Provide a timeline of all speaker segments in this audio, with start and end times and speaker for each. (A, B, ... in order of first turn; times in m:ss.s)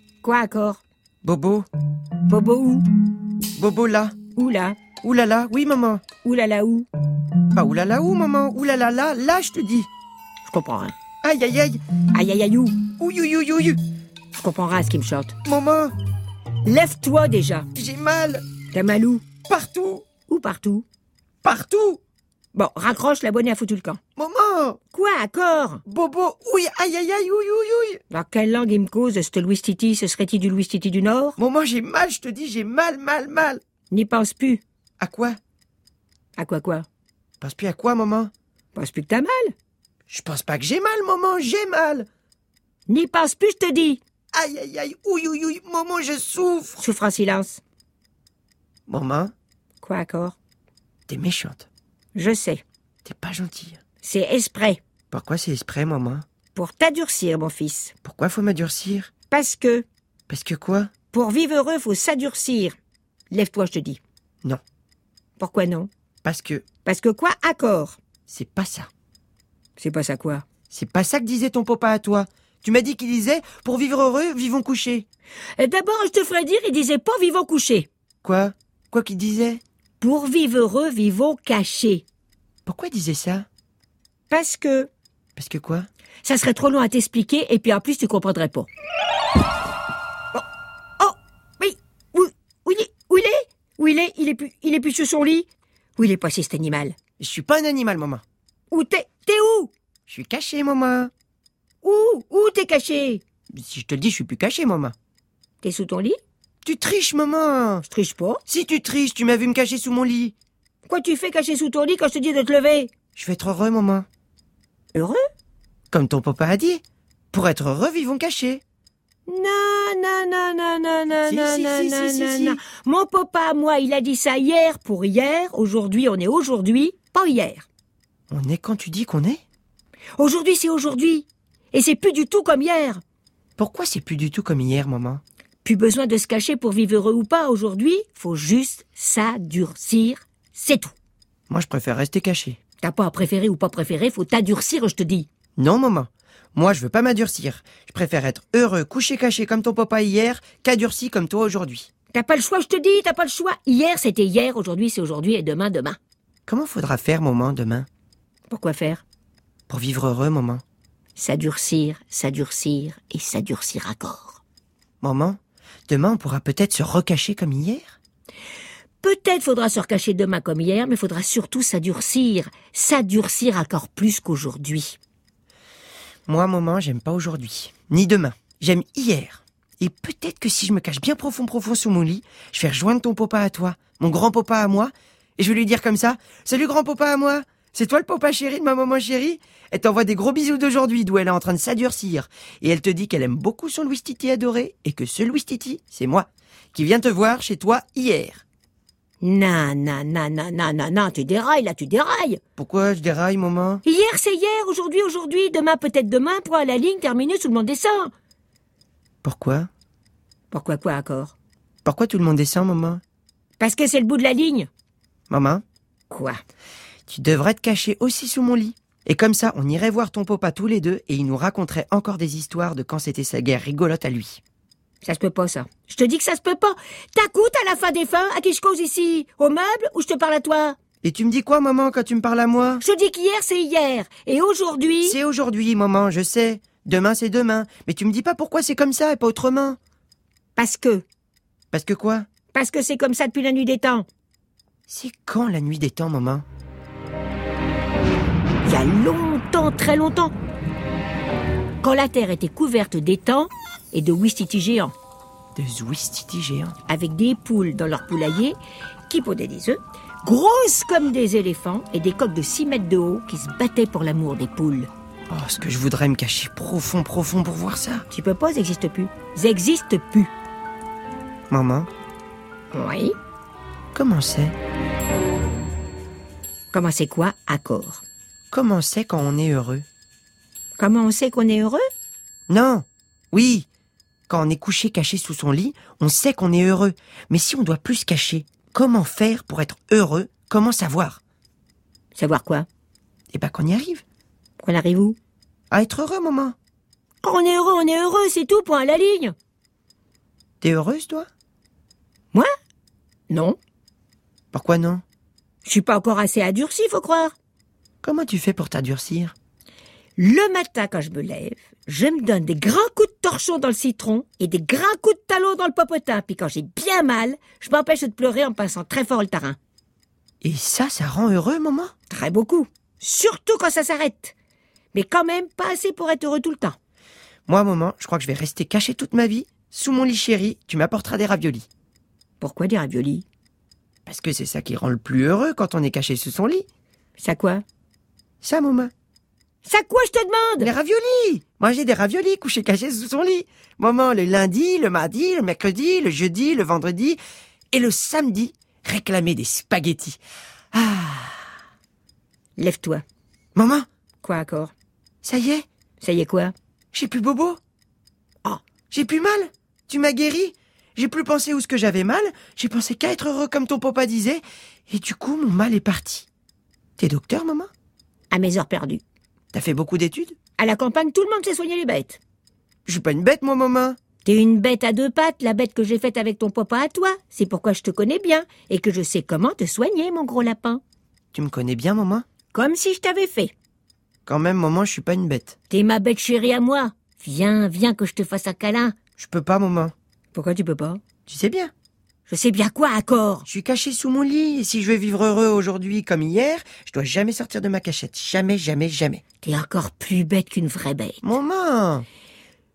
0:00.2-0:00.8 A
0:01.2-0:01.7 B
0:02.3-0:02.8 A
0:03.6-0:04.2 B
0:04.3-0:04.8 A
0:05.0-0:06.0 B
0:06.2-0:06.9 A
0:07.5-0:09.9 B
0:10.4-0:10.9 A
0:11.2-0:11.8 B
0:12.1-0:12.8 A
0:13.0-0:13.8 B
0:14.3-0:15.4 A
0:15.4-0:15.9 B
0:16.6-0:17.7 A
0:17.7-0:18.4 B
0:18.7-0:19.3 A
0:19.4-0:20.0 B
0:20.3-0:20.8 A
0:21.4-0:22.0 B
0:22.5-0:24.0 A
0:24.2-0:24.8 B
0:24.9-0:25.8 A
0:25.8-0:28.0 B
0:28.1-0:31.4 A
0:31.4-0:33.6 B
0:33.9-0:34.6 A
0:35.0-0:35.4 B
0:36.4-0:36.8 A
0:37.4-0:38.3 B
0:38.7-0:39.5 A
0:40.1-0:42.1 B
0:42.9-0:44.0 A
0:44.3-0:46.8 B
0:46.8-0:47.6 A
0:48.9-0:49.3 B
0:49.8-0:50.4 A
0:51.1-0:51.7 B
0:52.1-0:52.6 A
0:53.0-0:53.8 B
0:54.0-0:54.8 A
0:55.1-0:56.2 B
0:56.5-0:57.9 A
0:58.0-0:59.1 B
0:59.3-0:59.8 A
1:00.3-1:00.9 B
1:01.1-1:02.8 A
1:03.3-1:04.0 A
1:05.4-1:05.9 A
1:06.2-1:06.6 B
1:06.8-1:08.0 A
1:08.3-1:08.9 B
1:09.8-1:10.4 A
1:10.7-1:15.0 B
1:15.6-1:17.9 A
1:18.2-1:19.6 B
1:20.0-1:22.0 A
1:22.6-1:23.5 B
1:24.3-1:24.9 A
1:25.4-1:25.9 B
1:26.2-1:28.7 A
1:31.0-1:37.0 A
1:37.2-1:38.2 B
1:38.7-1:39.7 A
1:40.1-1:41.1 B
1:41.8-1:43.2 A
1:43.5-1:44.9 B
1:45.6-1:46.2 A
1:46.6-1:47.8 B
1:47.9-1:48.4 A
1:48.5-1:50.3 B
1:50.8-1:52.9 A
1:53.1-1:54.1 B
1:54.9-1:55.2 A
1:55.9-1:58.6 B
1:59.3-2:07.7 A
2:01.2-2:02.6 B
2:08.3-2:09.4 B
2:10.2-2:13.0 A
2:13.6-2:15.2 B
2:15.6-2:20.9 A
2:21.5-2:22.6 B
2:22.8-2:25.3 A
2:25.6-2:31.9 B
2:32.1-2:36.0 A
2:36.5-2:37.9 B
2:38.5-2:39.0 A
2:39.7-2:40.6 B
2:41.2-2:44.4 A
2:45.0-2:48.0 B
2:49.0-2:55.0 A
2:56.3-3:18.4 B
3:19.2-3:22.4 A
3:22.6-3:23.8 B
3:23.8-3:28.1 A
3:29.2-3:29.7 B
3:30.5-3:31.3 A
3:31.8-3:33.0 B
3:33.6-3:34.7 A
3:35.3-3:35.6 B
3:36.1-3:36.4 A
3:37.1-3:44.4 B
3:45.0-3:50.8 A
3:51.0-3:52.8 B
3:52.8-3:55.2 A
3:55.0-3:59.8 B
4:00.6-4:01.0 A
4:01.7-4:02.2 B
4:02.5-4:04.0 A
4:04.9-4:06.4 B
4:08.6-4:10.3 A
4:11.8-4:14.9 A
4:15.6-4:16.8 B
4:16.9-4:18.6 A
4:19.1-4:24.9 A
4:25.3-4:28.0 B
4:28.1-4:30.3 A
4:31.5-4:31.9 B
4:32.7-4:33.1 A
4:33.9-4:34.5 B
4:36.7-4:38.0 A
4:38.5-4:39.8 B
4:40.8-4:41.8 A
4:42.5-4:43.7 B
4:44.3-4:51.2 B
4:52.1-4:52.6 A
4:53.3-4:54.0 B
4:54.6-4:55.2 A
4:55.7-4:56.6 B
4:57.2-4:59.3 A
5:00.6-5:01.3 B
5:03.3-5:03.6 A
5:04.5-5:05.0 B
5:05.6-5:07.3 A
5:08.0-5:09.3 B
5:10.2-5:19.6 A
5:20.4-5:21.9 B
5:22.1-5:24.3 A
5:24.9-5:26.8 A
5:27.5-5:31.7 B
5:32.4-5:33.2 A
5:34.0-5:36.6 B
5:37.2-5:37.6 A
5:38.4-5:38.9 B
5:39.6-5:40.7 A
5:40.6-5:47.2 B
5:47.7-5:50.2 B
5:50.7-5:51.5 B
5:52.6-5:53.0 A
5:53.6-5:53.8 B
5:54.2-5:54.7 A
5:55.2-5:55.6 B
5:56.0-5:56.5 A
5:56.9-5:57.6 B
5:58.9-6:06.3 B
6:07.0-6:07.7 B
6:08.3-6:09.0 A
6:09.5-6:10.4 B
6:10.6-6:12.2 A
6:12.8-6:14.0 B
6:14.2-6:20.8 A
6:21.3-6:22.2 B
6:22.5-6:23.5 A
6:24.2-6:25.5 B
6:25.7-6:29.0 A
6:29.2-6:29.9 B
6:30.3-6:31.0 A
6:31.3-6:31.7 B
6:32.3-6:33.4 A
6:33.4-6:39.2 B
6:39.4-6:41.2 A
6:41.2-6:42.0 B